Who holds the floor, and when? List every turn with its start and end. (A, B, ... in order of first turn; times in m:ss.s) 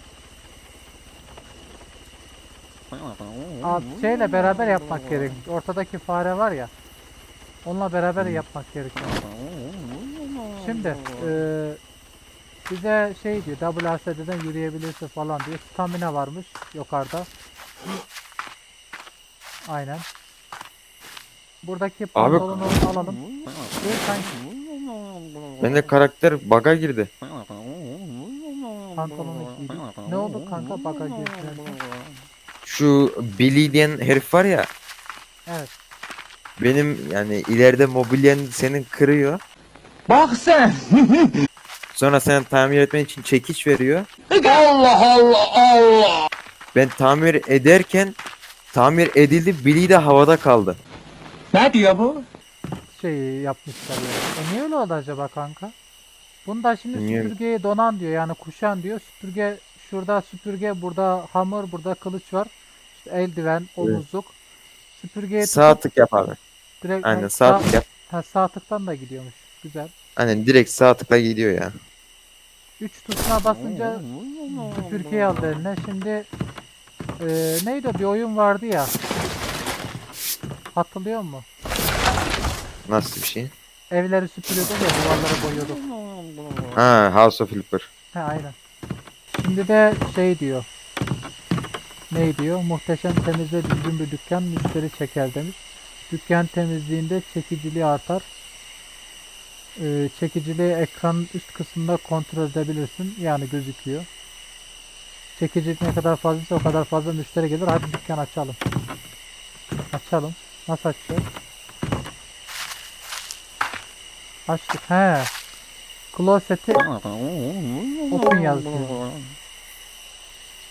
0:03.6-0:06.7 A
0:07.6-0:09.2 A
0:10.6-0:11.8 A
0:12.7-0:17.3 A
0:19.6-0:20.0 A
0:21.6-0:23.2 A
0:22.2-0:22.7 B
0:23.8-0:24.4 A
0:25.6-0:27.1 B
0:29.0-0:31.8 A
0:32.6-0:34.7 B
0:35.5-0:35.7 A
0:36.6-0:39.4 B
0:40.1-0:41.3 C
0:41.9-0:44.1 B
0:44.3-0:46.2 C
0:46.7-0:48.2 B
0:48.7-0:50.8 B
0:51.5-0:52.2 C
0:52.9-0:55.7 A
0:56.4-1:04.4 A
0:57.0-0:57.3 B
1:04.9-1:05.8 A
1:05.4-1:06.4 B
1:06.8-1:09.9 A
1:07.0-1:07.9 B
1:10.2-1:11.7 B
1:12.8-1:16.3 A
1:17.2-1:18.9 A
1:20.7-1:21.5 A
1:22.9-1:23.5 B
1:23.9-1:25.8 A
1:26.7-1:27.9 B
1:28.1-1:28.6 A
1:29.3-1:30.7 A
1:32.1-1:38.2 A
1:39.8-1:44.1 A
1:45.4-1:48.6 A
1:49.9-1:51.3 A
1:54.5-1:55.3 A
1:56.1-1:56.9 A
1:58.1-1:59.1 A